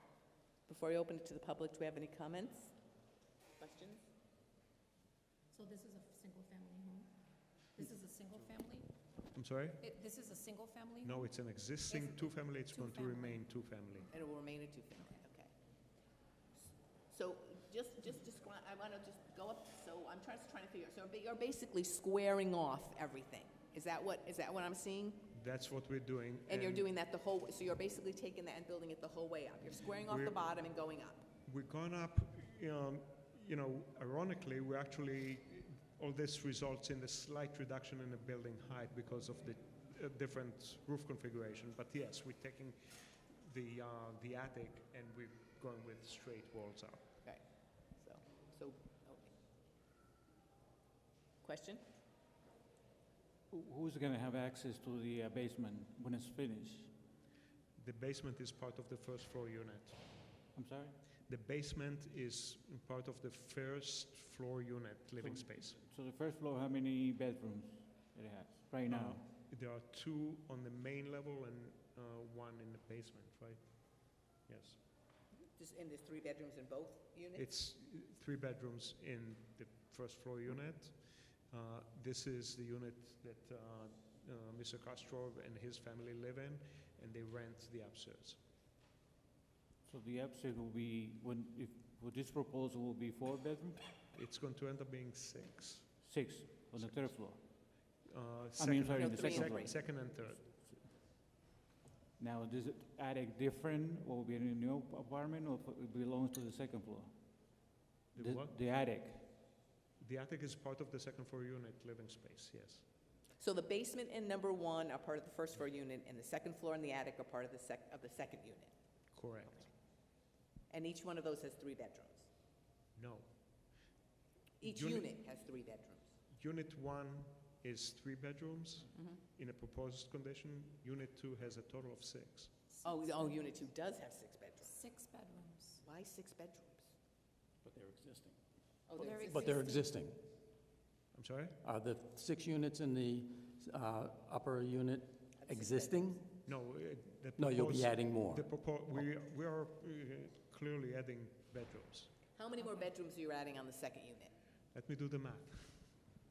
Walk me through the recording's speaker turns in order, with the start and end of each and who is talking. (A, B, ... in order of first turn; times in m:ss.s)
0:00.7-0:02.8 A
0:03.6-0:04.1 A
0:05.5-0:07.1 B
0:07.8-0:08.9 B
0:09.3-0:09.9 C
0:09.8-0:11.2 B
0:11.0-0:14.1 C
0:12.7-0:13.4 B
0:14.1-0:15.5 A
0:17.1-0:25.3 A
0:25.3-0:26.9 C
0:26.5-0:31.2 A
0:30.0-0:30.4 C
0:31.4-0:47.1 C
0:47.2-0:49.3 A
0:51.4-0:51.8 A
0:53.5-0:56.9 D
0:57.8-1:00.0 C
1:00.5-1:01.0 D
1:01.3-1:05.8 C
1:05.2-1:09.2 D
1:08.9-1:14.8 C
1:15.3-1:17.4 A
1:17.4-1:28.4 C
1:29.8-1:33.9 D
1:34.1-1:36.0 C
1:36.0-1:37.4 D
1:36.7-1:37.3 C
1:38.0-1:40.6 C
1:38.6-1:39.8 D
1:38.9-1:39.8 A
1:42.2-1:47.1 D
1:48.1-1:49.3 D
1:48.1-1:48.6 C
1:50.0-1:52.8 C
1:53.4-1:58.7 A
1:59.1-1:59.7 C
2:00.7-2:02.3 A
2:02.9-2:03.3 C
2:04.6-2:06.1 A
2:04.6-2:05.1 C
2:06.3-2:12.5 C
2:08.9-2:09.2 A
2:12.8-2:13.4 B
2:12.8-2:14.8 A
2:14.6-2:15.8 B
2:15.8-2:16.9 A
2:17.6-2:18.4 E
2:18.9-2:19.7 A
2:18.9-2:20.3 E
2:19.0-2:19.8 B
2:21.1-2:21.6 C
2:21.6-2:26.3 E
2:25.4-2:26.0 A
2:26.4-2:32.2 C
2:27.4-2:29.0 E
2:32.3-2:34.3 A
2:34.7-2:36.0 C